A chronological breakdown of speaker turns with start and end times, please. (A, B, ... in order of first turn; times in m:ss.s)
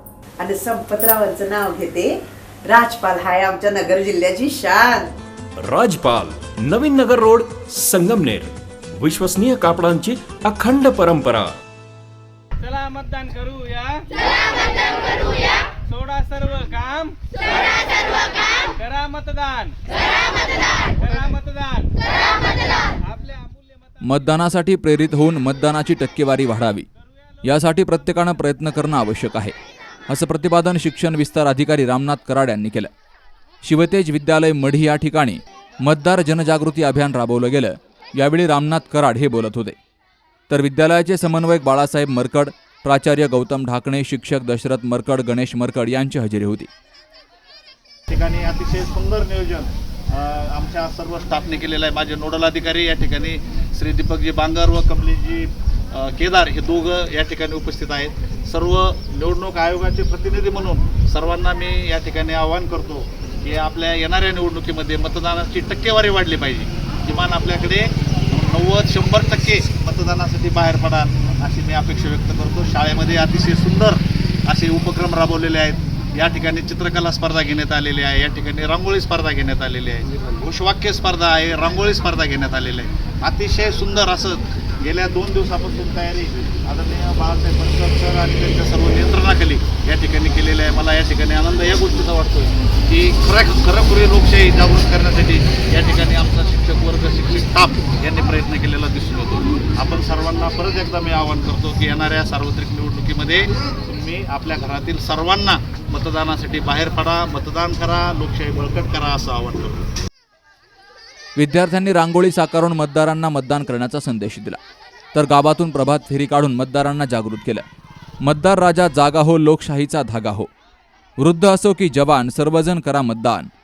0:00.4-0:05.1 A
0:05.6-0:11.5 B
0:12.6-0:14.1 C
0:15.9-0:17.2 C
0:18.7-0:19.8 C
0:20.9-0:21.9 C
0:23.1-0:23.6 C
0:24.0-0:26.9 D
0:27.4-0:29.5 D
0:30.1-0:32.9 D
0:33.6-0:39.8 D
0:40.5-0:46.7 D
0:48.1-1:49.9 E
1:51.4-1:54.6 D
1:55.1-1:57.6 D
1:58.2-2:00.5 D
2:01.2-2:03.5 D